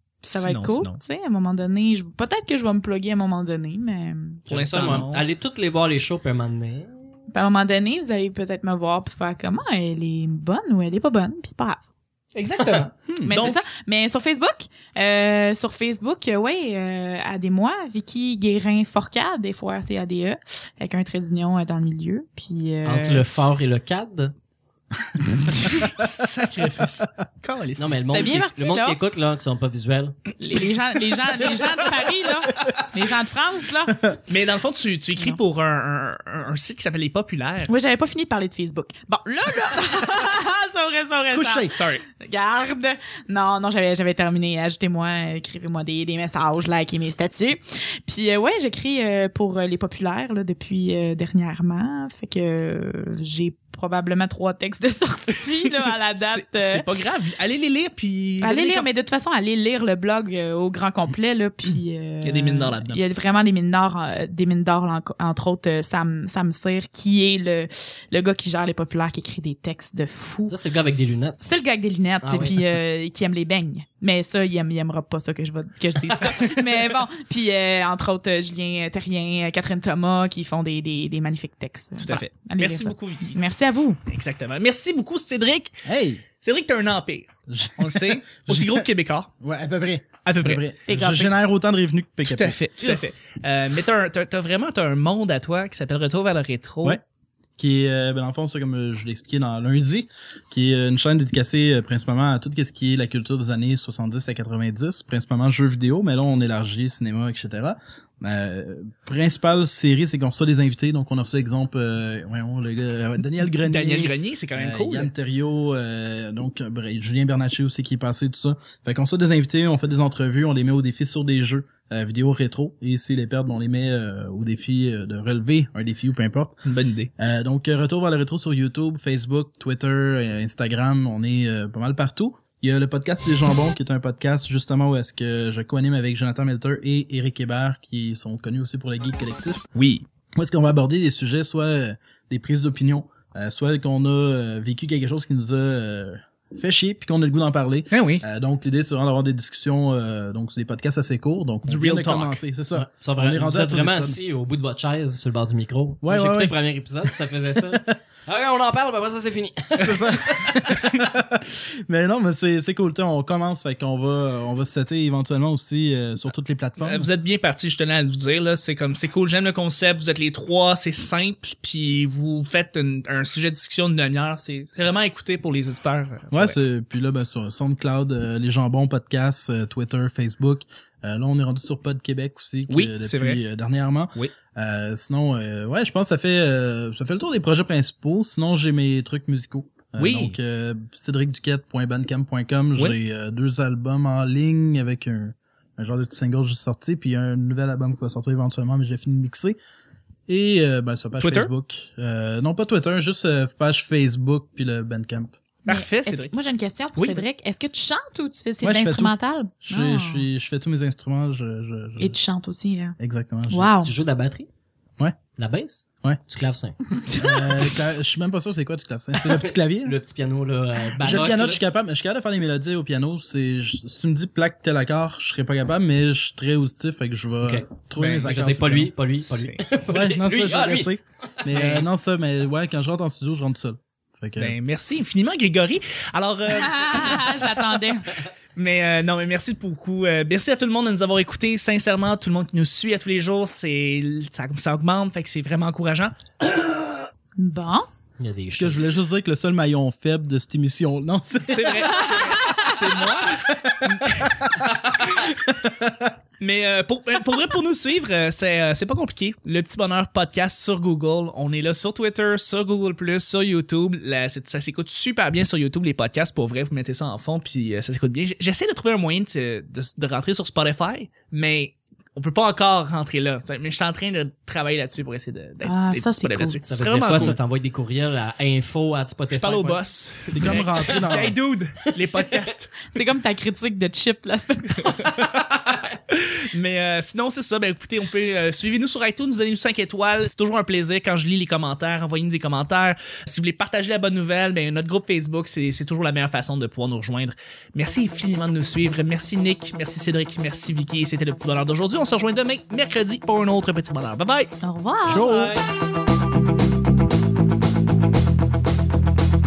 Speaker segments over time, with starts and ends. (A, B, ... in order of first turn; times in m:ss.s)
0:00.2-0:04.4 A
0:00.3-0:01.0 B
0:04.5-0:06.9 C
0:04.5-0:05.3 B
0:07.3-0:11.8 A
0:12.3-0:13.6 B
0:13.1-0:13.5 D
0:13.2-0:23.3 A
0:22.8-0:24.3 C
0:25.7-0:28.3 B
0:27.8-0:30.3 C
0:28.1-0:29.0 A
0:30.4-0:34.2 A
0:34.3-0:37.7 B
0:37.7-0:56.8 A
0:41.3-0:42.0 B
0:56.2-0:58.9 B
0:58.4-1:10.5 A
1:02.2-1:03.0 B
1:10.5-1:11.4 C
1:11.4-1:24.0 A
1:12.2-1:12.7 C
1:22.0-1:23.4 B
1:24.1-1:25.8 B
1:25.8-1:26.2 D
1:26.4-1:29.3 B
1:27.5-1:28.8 D
1:29.4-1:32.6 D
1:30.2-1:30.6 B
1:30.9-1:31.3 A
1:32.2-1:37.0 B
1:37.6-2:06.6 D
1:53.6-1:55.1 B
2:06.6-2:07.1 B
2:07.2-2:19.6 D
2:19.7-2:20.0 B
2:20.4-2:34.2 D
2:27.9-2:28.2 B
2:31.6-2:32.4 B
2:32.7-2:41.0 C
2:36.0-2:36.6 D
2:39.8-2:47.1 D
2:46.8-2:56.6 B
2:56.3-3:19.6 D
3:02.7-3:03.4 B
3:10.0-3:10.4 B
3:20.3-3:25.3 D
3:21.2-3:21.5 B
3:25.6-3:26.3 B
3:25.7-3:30.2 A
3:27.0-3:27.2 B
3:28.6-3:32.2 D
3:32.0-3:33.0 A
3:33.0-3:33.7 D
3:33.5-3:33.9 A
3:33.8-3:34.5 C
3:35.4-3:36.8 C
3:37.0-3:37.6 A
3:37.2-3:40.0 D
3:39.2-3:41.6 C
3:41.0-3:48.9 D
3:47.4-3:50.9 C
3:49.3-3:49.6 B
3:49.9-3:54.5 D
3:51.5-3:51.9 B
3:54.4-3:57.4 B
3:56.5-3:58.1 A
3:58.6-4:07.0 B
4:07.4-4:07.9 A
4:08.2-4:08.9 C
4:08.6-4:12.3 D
4:11.5-4:15.3 B
4:13.3-4:14.5 D
4:15.6-4:16.1 D
4:16.4-4:37.4 B
4:35.6-4:36.6 A
4:36.7-4:41.3 C
4:39.3-4:42.8 B
4:40.3-4:41.4 D
4:42.9-4:45.2 A
4:44.9-5:04.5 B
5:04.6-5:05.5 A
5:05.1-5:05.6 C
5:05.1-5:05.5 B